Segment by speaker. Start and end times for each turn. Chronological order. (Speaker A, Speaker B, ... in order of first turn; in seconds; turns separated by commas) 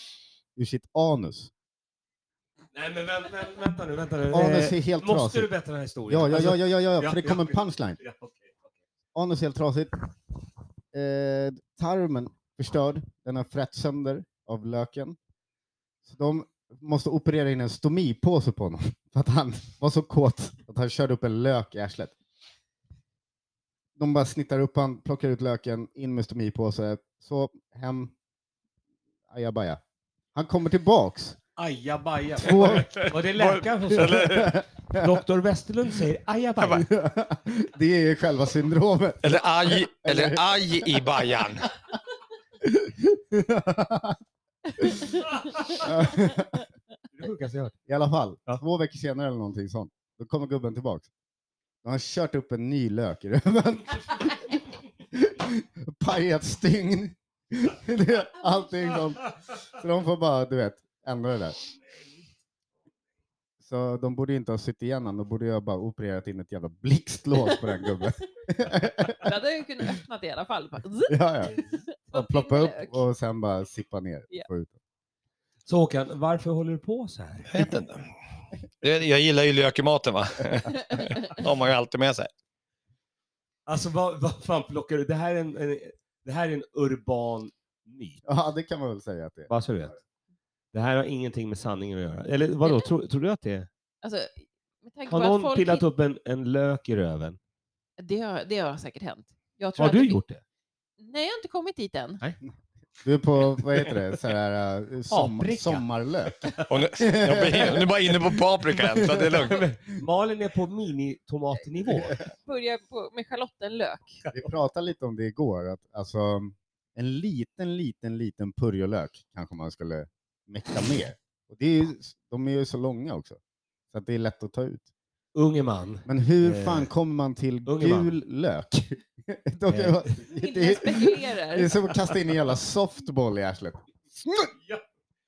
Speaker A: 0.6-1.5, Speaker B: 2.7-8.8, Speaker A: 4.3-5.5, Speaker A: 6.1-8.0, Speaker A: 9.1-10.0, Speaker A: 10.9-15.2, Speaker A: 16.0-22.1, Speaker A: 23.9-28.1, Speaker A: 29.3-29.8, Speaker A: 30.3-31.4, Speaker B: 31.6-36.9, Speaker A: 32.4-33.0, Speaker C: 32.5-34.6, Speaker A: 34.0-35.2, Speaker A: 36.8-41.1, Speaker C: 39.2-41.7, Speaker A: 42.6-44.2, Speaker A: 44.8-45.2, Speaker A: 45.7-46.6, Speaker B: 47.1-47.7, Speaker A: 47.9-51.1, Speaker A: 51.8-54.6, Speaker A: 55.1-61.6, Speaker A: 63.6-69.3, Speaker D: 67.5-68.1, Speaker D: 69.2-73.0, Speaker A: 71.1-74.7, Speaker B: 75.7-77.7, Speaker C: 77.5-78.1, Speaker C: 78.8-82.3, Speaker D: 80.9-81.2, Speaker B: 83.7-88.2, Speaker A: 88.2-89.5, Speaker B: 89.5-90.0, Speaker B: 90.7-93.7, Speaker D: 92.6-92.9, Speaker D: 94.0-95.8, Speaker B: 95.1-97.4, Speaker D: 98.0-100.2, Speaker B: 99.8-100.4, Speaker D: 101.0-102.2, Speaker A: 103.0-109.5, Speaker B: 105.1-106.7, Speaker C: 106.7-109.6, Speaker B: 109.4-112.2, Speaker D: 112.4-114.2, Speaker A: 114.3-123.4, Speaker A: 123.9-124.9, Speaker B: 125.3-126.9, Speaker A: 126.0-134.5, Speaker B: 127.7-128.1, Speaker B: 129.7-130.1, Speaker D: 130.3-131.8